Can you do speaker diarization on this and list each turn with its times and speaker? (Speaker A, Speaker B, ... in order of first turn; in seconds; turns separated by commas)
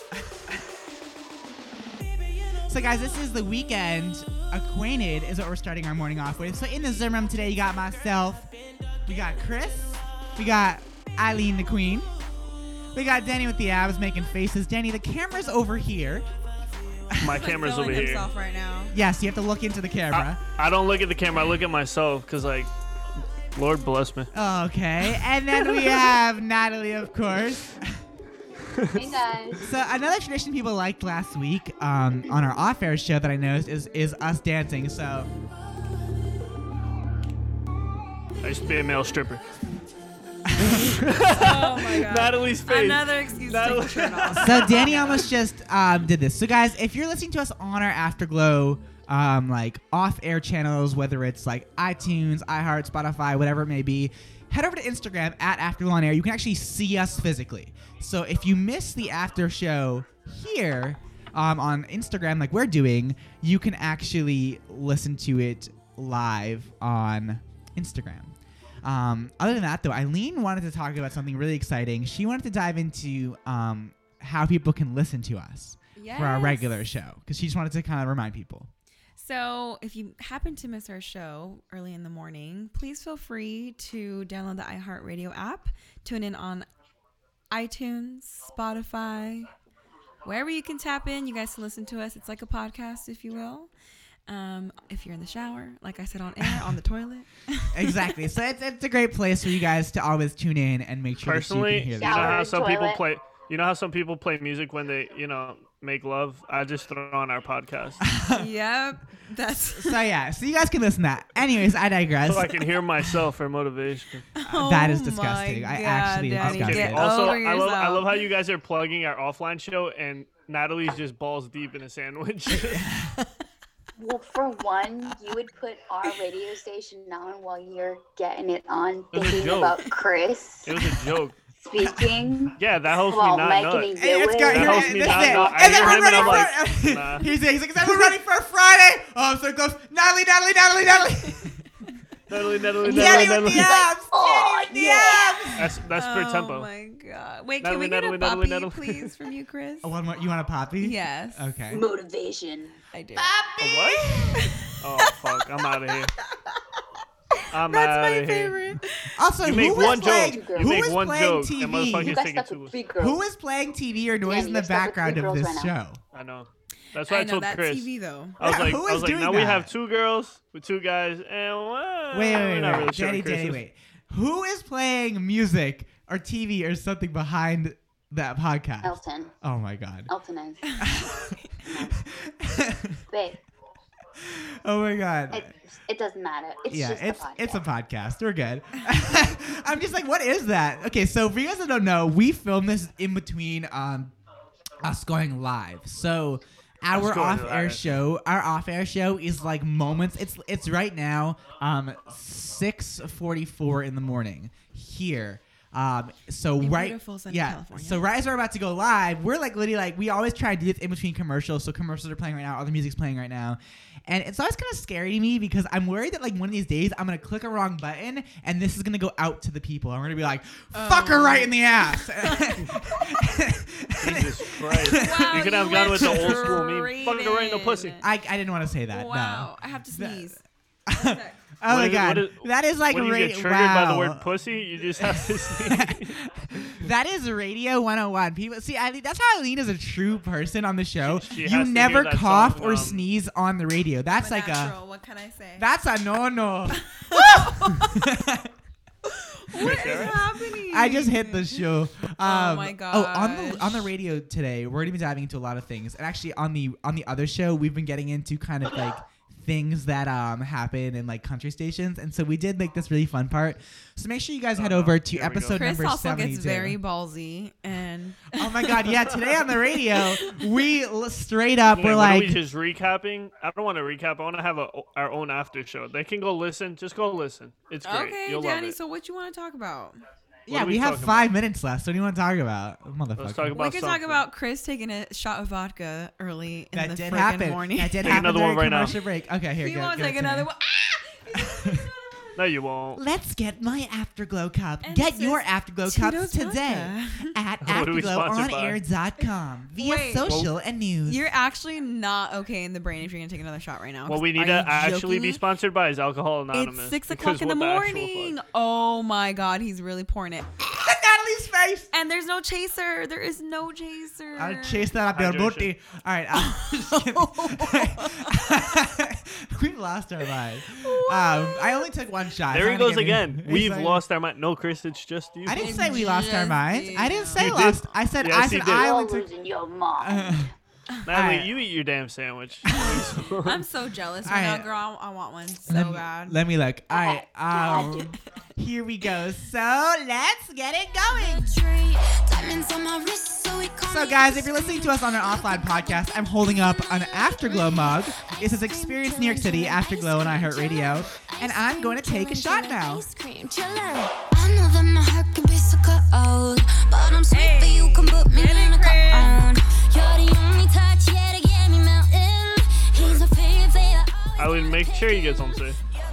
Speaker A: 2.7-8.5, Speaker A: 9.1-12.1, Speaker A: 12.9-16.2, Speaker B: 17.2-18.3, Speaker C: 17.2-19.0, Speaker A: 18.9-20.4, Speaker B: 20.1-22.7, Speaker B: 23.5-24.3, Speaker A: 24.3-28.0, Speaker B: 28.8-29.2, Speaker D: 28.9-29.6, Speaker A: 29.6-35.3, Speaker B: 38.4-39.4, Speaker B: 40.6-44.9, Speaker C: 41.3-45.3, Speaker A: 44.4-78.7, Speaker C: 76.0-76.8, Speaker C: 79.2-86.7, Speaker C: 87.5-89.5, Speaker C: 90.2-93.7, Speaker C: 94.3-98.1, Speaker A: 96.4-96.7, Speaker A: 97.7-102.4, Speaker B: 101.2-108.0, Speaker D: 102.0-103.0, Speaker A: 108.0-108.5, Speaker C: 108.3-110.0, Speaker A: 109.7-113.2, Speaker B: 112.2-114.3, Speaker C: 114.4-118.2, Speaker A: 114.5-117.3, Speaker B: 116.4-122.9, Speaker A: 122.5-123.3, Speaker D: 124.0-130.8, Speaker B: 129.1-129.8, Speaker B: 130.7-131.4, Speaker D: 131.6-136.5, Speaker A: 131.8-132.5, Speaker B: 132.6-133.9, Speaker A: 133.9-141.6, Speaker B: 134.4-137.3, Speaker B: 142.3-143.8, Speaker D: 142.8-145.5, Speaker A: 142.8-145.8, Speaker B: 145.6-146.7, Speaker C: 145.9-149.9, Speaker B: 147.6-149.1, Speaker A: 149.8-151.8, Speaker C: 150.8-151.4, Speaker D: 151.7-152.8, Speaker C: 152.9-153.3, Speaker A: 153.1-154.5, Speaker B: 153.6-154.2, Speaker B: 154.8-156.1, Speaker B: 157.5-158.7, Speaker C: 157.6-159.1, Speaker A: 159.2-162.2, Speaker B: 159.4-162.8, Speaker D: 159.6-160.9, Speaker D: 162.0-163.2, Speaker A: 163.0-166.0, Speaker D: 164.2-165.7, Speaker B: 166.1-173.6, Speaker C: 167.0-168.4, Speaker A: 168.4-169.7, Speaker A: 172.1-180.1, Speaker D: 178.8-179.3, Speaker D: 180.1-180.8, Speaker A: 180.8-183.0, Speaker D: 181.6-181.9, Speaker D: 183.1-183.4, Speaker A: 184.2-185.5, Speaker D: 185.3-187.7, Speaker A: 186.7-194.1, Speaker A: 194.8-226.6, Speaker B: 196.9-197.9, Speaker C: 206.6-208.0, Speaker C: 220.7-222.6, Speaker B: 224.0-228.0, Speaker C: 224.9-228.0, Speaker A: 228.0-230.4, Speaker C: 228.9-231.4, Speaker A: 230.9-234.2, Speaker B: 231.7-236.8, Speaker A: 235.0-244.8, Speaker B: 241.0-243.1, Speaker C: 244.1-245.7, Speaker A: 245.6-248.5, Speaker C: 247.0-247.9, Speaker C: 249.3-251.6, Speaker B: 249.6-250.2, Speaker A: 249.6-266.8, Speaker C: 252.2-253.9, Speaker B: 264.5-265.6, Speaker C: 265.5-269.0, Speaker A: 268.4-272.4, Speaker C: 269.9-270.5, Speaker B: 271.6-278.8, Speaker C: 277.8-280.0, Speaker A: 280.5-283.6, Speaker B: 280.5-281.3, Speaker B: 283.2-284.2, Speaker C: 283.5-288.3, Speaker A: 286.7-290.5, Speaker B: 288.0-288.9, Speaker C: 289.6-292.3, Speaker B: 292.4-293.0, Speaker A: 292.9-301.3, Speaker C: 294.8-297.3, Speaker B: 297.6-298.8, Speaker C: 299.8-300.4, Speaker B: 300.2-300.5, Speaker C: 301.0-305.4, Speaker B: 304.1-308.4, Speaker C: 306.5-310.6, Speaker A: 310.7-311.9, Speaker C: 311.9-314.9, Speaker A: 314.4-324.0, Speaker B: 315.1-315.7, Speaker C: 316.4-318.5, Speaker C: 320.7-321.9, Speaker B: 322.5-326.0, Speaker A: 325.4-329.3, Speaker C: 325.6-327.6, Speaker B: 327.4-328.9, Speaker D: 328.6-330.5, Speaker A: 330.0-330.5, Speaker B: 331.1-333.6, Speaker A: 331.1-331.5, Speaker C: 332.7-336.4, Speaker A: 334.2-334.7, Speaker A: 335.7-341.5, Speaker D: 336.9-338.1, Speaker E: 341.2-365.5, Speaker A: 343.8-353.1, Speaker C: 357.3-359.5, Speaker B: 364.4-365.8